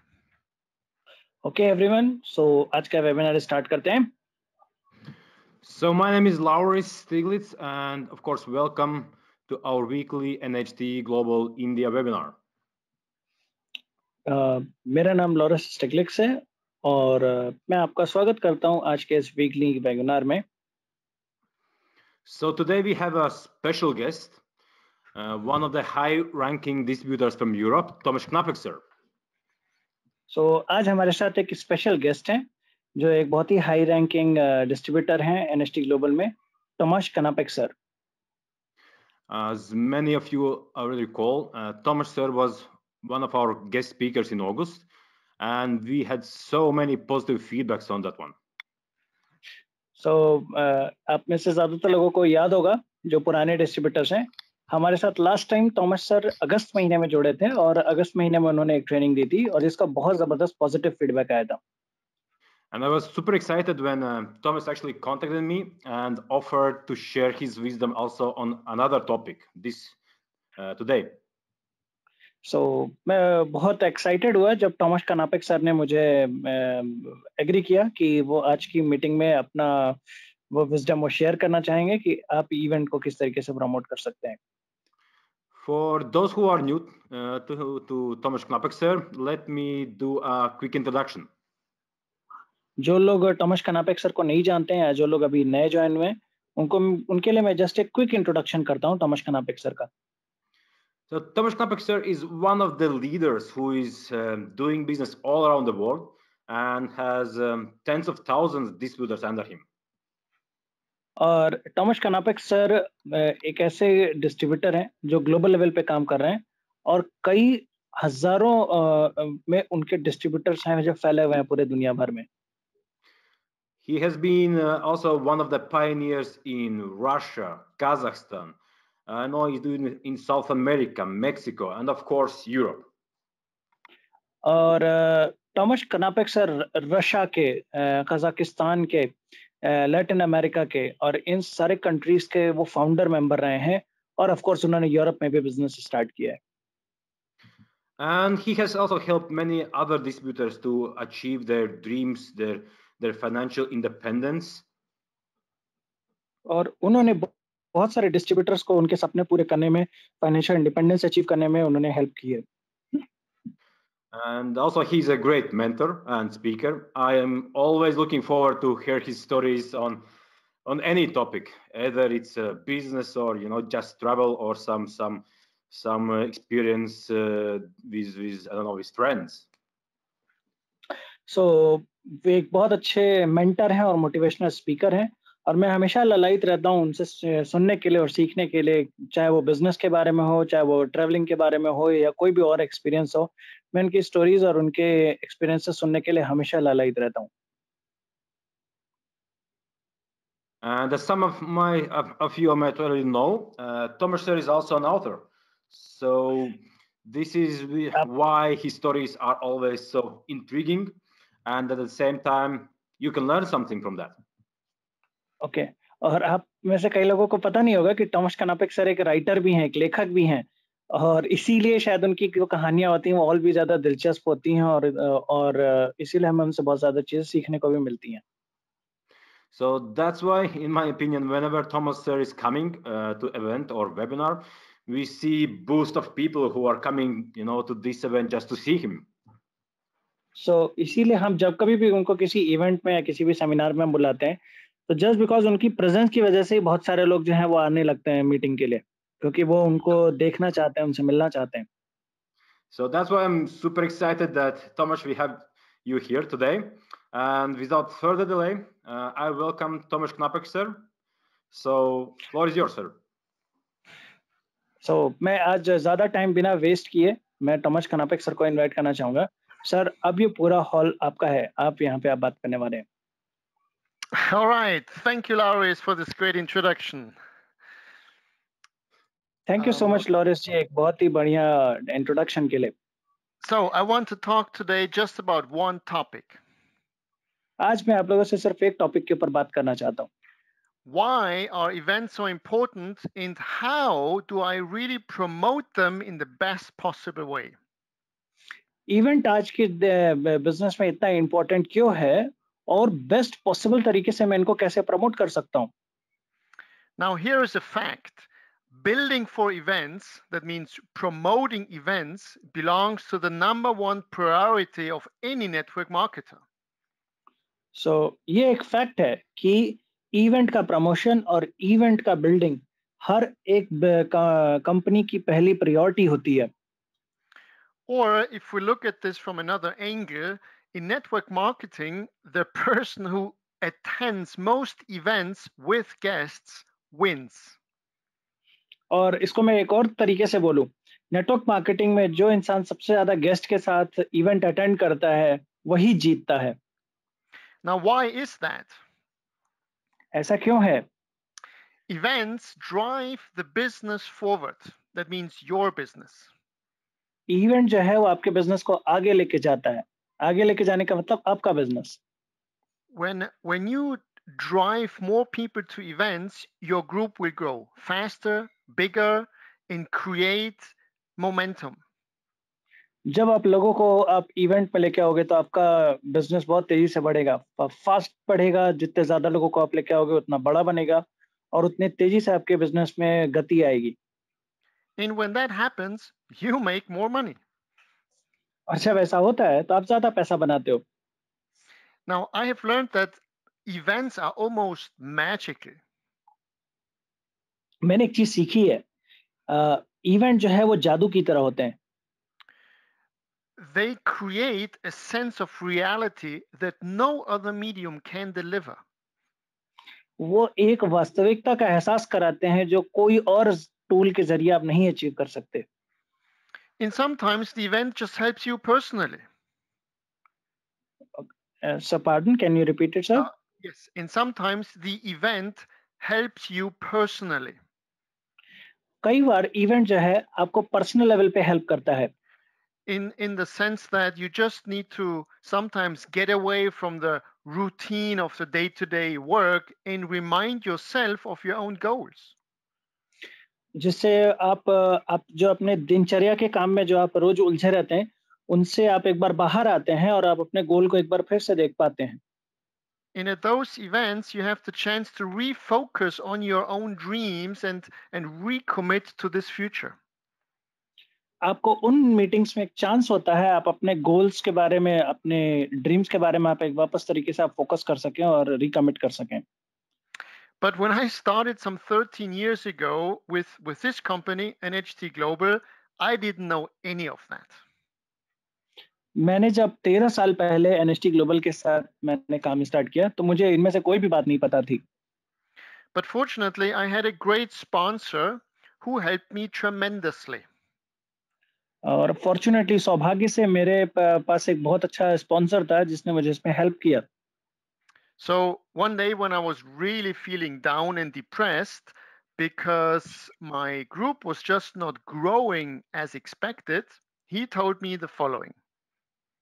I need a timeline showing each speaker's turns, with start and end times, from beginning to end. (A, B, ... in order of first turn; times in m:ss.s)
0:01.4-0:04.1 A
0:05.6-0:12.4 B
0:14.3-0:20.4 A
0:22.2-0:24.4 B
0:25.1-0:28.8 B
0:30.3-0:32.4 A
0:33.0-0:37.7 A
0:39.3-0:44.8 B
0:45.4-0:48.4 B
0:50.0-1:01.6 A
1:02.7-1:09.9 B
1:10.6-1:11.2 B
1:12.4-1:20.0 A
1:20.5-1:24.4 A
1:25.6-1:31.3 B
1:32.8-1:39.9 A
1:41.1-1:49.6 B
1:51.2-2:02.3 A
2:03.8-2:08.6 B
2:09.1-2:12.9 B
2:14.4-2:26.4 A
2:28.0-2:34.6 B
2:36.5-2:42.4 A
2:44.1-2:50.0 B
2:50.6-2:59.4 B
3:01.3-3:17.3 A
3:20.6-3:34.2 B
3:35.4-3:48.2 A
3:49.5-3:59.1 B
4:00.4-4:11.7 A
4:12.7-4:20.8 B
4:21.5-4:23.0 B
4:24.8-4:32.8 A
4:34.1-4:37.2 C
4:39.5-4:42.7 A
4:39.6-4:40.0 C
4:43.4-4:46.4 C
4:47.6-4:50.1 A
4:50.8-4:57.5 C
4:58.9-5:05.7 A
5:07.0-5:16.4 C
5:17.7-5:26.5 A
5:27.9-5:37.6 C
5:38.9-5:46.6 A
5:47.6-5:48.8 C
5:50.1-5:50.8 A
5:51.9-5:56.3 C
5:57.3-6:02.0 A
6:02.9-6:11.8 C
6:13.1-6:21.0 A
6:21.5-6:24.0 A
6:25.0-6:27.4 C
6:28.7-6:30.8 A
6:32.1-6:35.8 C
6:37.8-6:38.8 A
6:39.5-6:41.8 A
6:43.6-6:48.8 C
6:50.2-6:55.6 A
6:56.8-6:59.2 C
7:01.2-7:03.3 A
7:03.2-7:07.6 C
7:09.0-7:12.1 A
7:12.9-7:22.3 C
7:23.8-7:32.2 A
7:33.1-7:40.0 C
7:41.4-7:49.4 A
7:50.6-7:57.6 C
7:59.2-8:04.8 A
8:05.9-8:10.4 C
8:11.8-8:17.0 A
8:18.2-8:28.5 C